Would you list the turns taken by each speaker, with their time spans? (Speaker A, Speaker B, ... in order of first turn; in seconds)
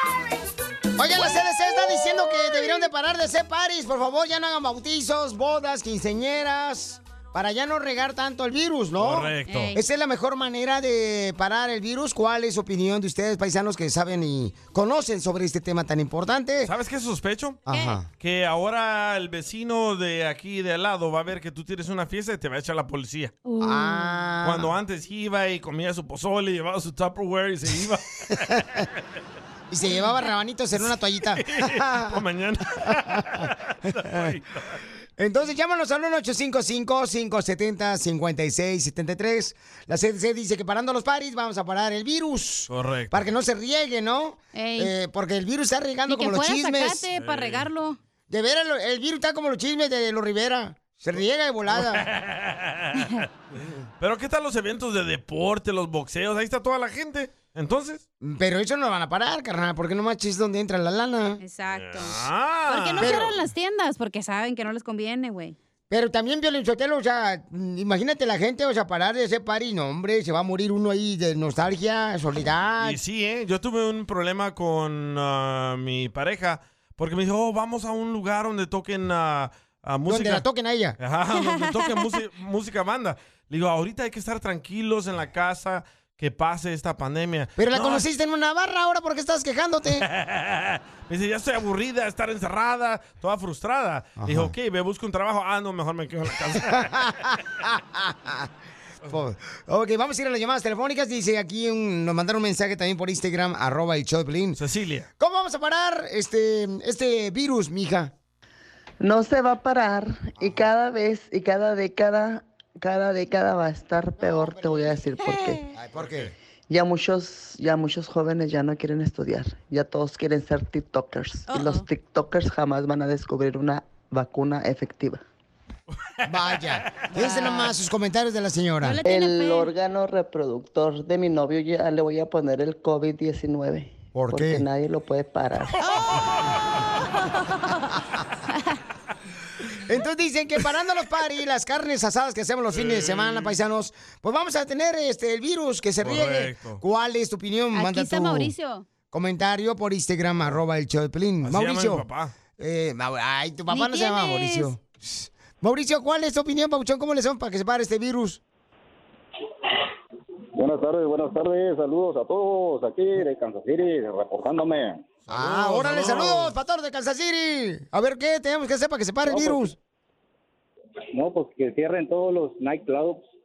Speaker A: 1.0-16.7, 17.7-18.1, 23.6-24.7, 29.7-32.2, 35.2-47.0, 48.3-52.1, 58.2-61.4, 63.0-63.3, 65.9-73.0, 80.1-81.0, 87.6-90.1, 94.2-94.5, 96.7-98.5, 99.0-104.6, 105.2-108.1, 115.8-116.3, 126.3-129.0, 134.1-134.7, 139.8-148.5, 149.1-152.1, 152.6-158.4, 165.3-169.8
Speaker B: 9.0-9.7, 16.6-17.7, 18.2-23.4, 24.4-28.9, 30.8-34.8, 42.7-43.3, 47.1-47.7, 51.7-58.0, 61.7-63.3, 72.8-80.5, 81.0-88.0, 89.9-97.0, 104.5-105.1, 116.0-116.3, 142.7-143.6, 146.0-146.8, 151.4-152.3, 165.3-166.6
Speaker C: 9.5-9.8, 17.7-18.0, 44.5-44.9, 46.1-48.0, 61.4-65.6, 81.3-81.9, 121.5-121.9, 127.2-127.7, 128.8-129.7, 135.8-136.1, 137.3-137.9, 147.7-148.9, 153.7-154.7
Speaker D: 109.0-115.6, 116.7-125.2, 129.0-135.8
Speaker E: 160.6-165.0, 169.2-169.7, 171.1-173.2